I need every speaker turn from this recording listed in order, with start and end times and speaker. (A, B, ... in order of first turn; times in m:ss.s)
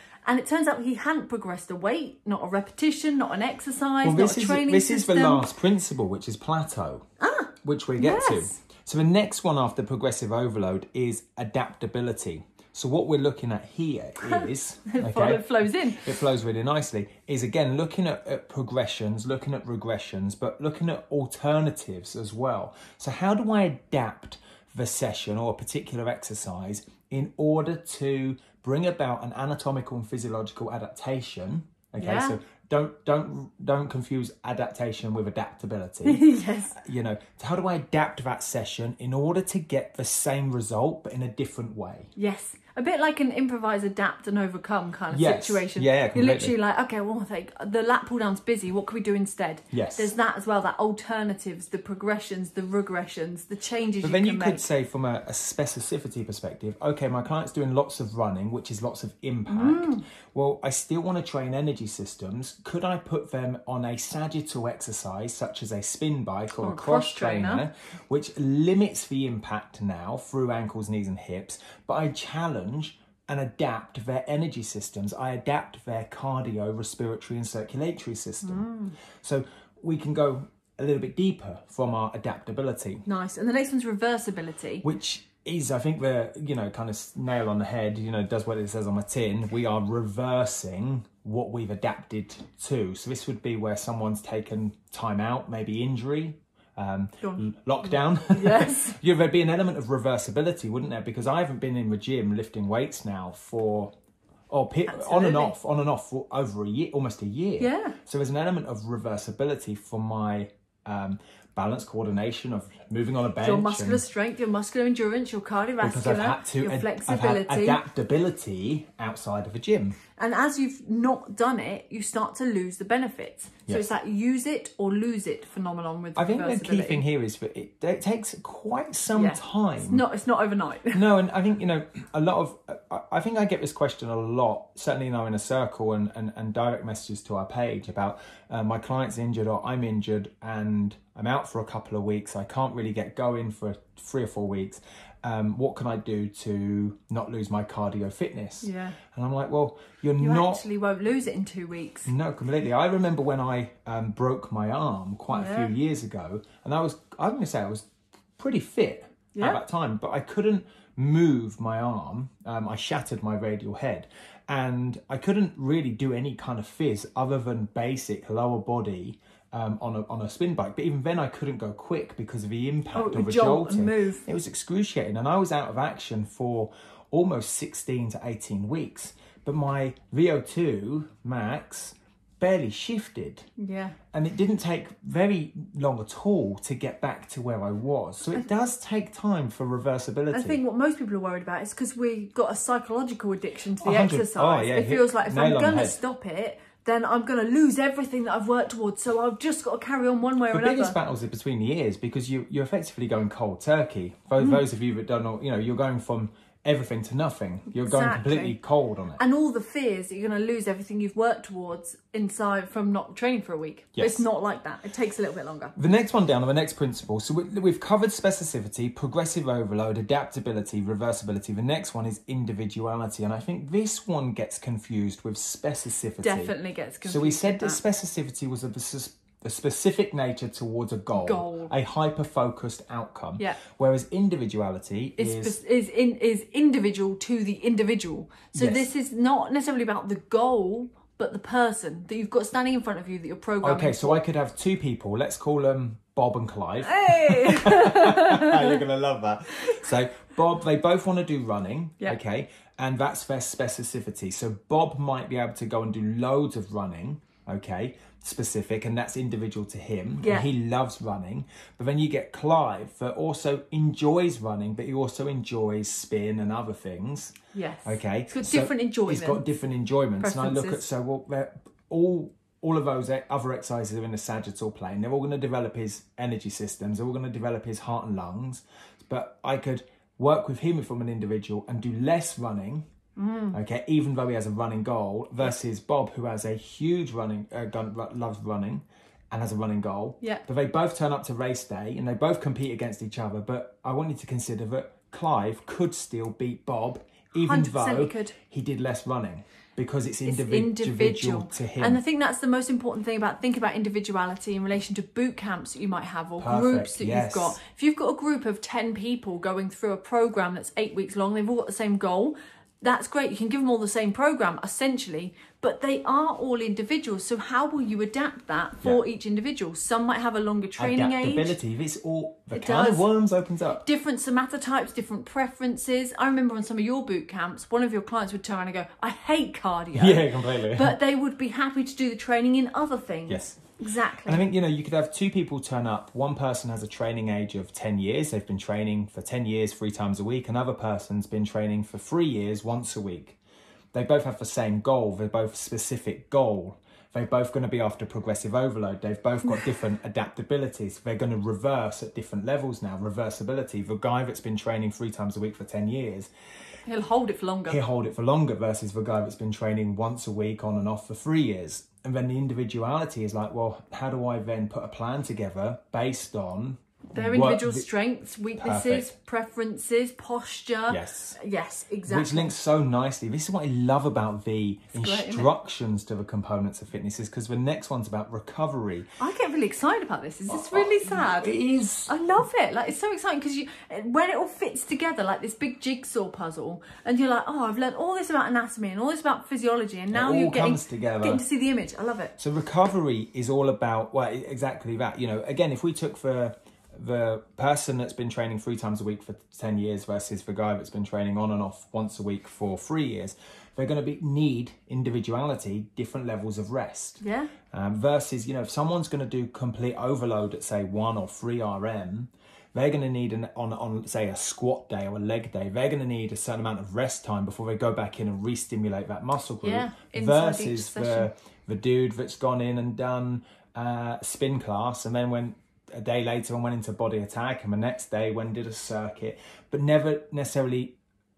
0:00.2-0:05.5 A
0:04.0-0:07.0 B
0:07.2-0:08.6 A
0:07.6-0:42.1 B
0:14.2-0:16.1 A
0:32.0-0:32.4 A
0:36.0-0:36.8 A
0:42.2-0:54.6 A
0:45.1-0:46.6 B
0:49.7-0:50.1 B
0:54.0-1:18.7 B
0:59.5-1:00.0 A
1:06.6-1:07.6 A
1:18.4-1:19.0 A
1:19.2-1:23.0 B
1:23.0-1:24.8 A
1:24.8-1:43.9 B
1:37.2-1:39.0 A
1:44.5-1:54.0 B
1:44.9-1:45.5 A
1:47.6-1:48.0 A
1:53.4-1:57.8 A
1:55.8-2:00.0 B
2:00.2-2:07.0 A
2:06.2-2:10.0 B
2:09.1-2:11.0 A
2:10.9-2:30.6 B
2:28.6-2:29.0 A
2:30.2-2:32.1 A
2:32.0-2:37.8 B
2:35.3-2:35.7 A
2:38.4-3:03.4 B
2:39.3-2:39.6 A
2:52.9-2:54.2 A
3:03.6-3:04.0 A
3:04.1-3:10.6 B
3:10.3-3:21.0 A
3:13.8-3:16.0 B
3:20.5-3:29.2 B
3:27.7-3:28.6 A
3:29.2-3:35.7 A
3:34.0-3:34.2 B
3:35.8-3:55.6 B
3:46.2-3:47.8 A
3:51.1-3:51.7 A
3:55.2-4:04.2 A
3:58.5-3:58.9 B
4:03.6-4:42.8 B
4:06.8-4:08.8 A
4:20.2-4:20.5 A
4:27.5-4:29.4 A
4:30.2-4:30.8 A
4:43.2-4:43.6 A
4:43.5-5:02.0 B
4:57.3-4:58.4 A
5:00.2-5:21.6 A
5:06.4-5:07.6 B
5:20.8-5:23.9 B
5:22.5-5:23.1 A
5:23.8-5:34.4 A
5:29.9-5:31.0 B
5:33.3-5:33.7 B
5:34.2-5:43.4 B
5:43.9-5:56.3 B
5:56.9-5:57.8 A
5:57.6-6:07.9 B
6:07.1-6:12.5 A
6:08.6-6:09.1 B
6:10.9-6:11.4 B
6:12.0-6:19.1 B
6:14.9-6:15.5 A
6:19.2-6:21.5 A
6:20.5-6:22.2 B
6:22.1-6:32.3 A
6:30.1-6:31.4 B
6:32.4-7:11.0 B
6:47.2-6:47.5 A
6:59.6-7:01.3 A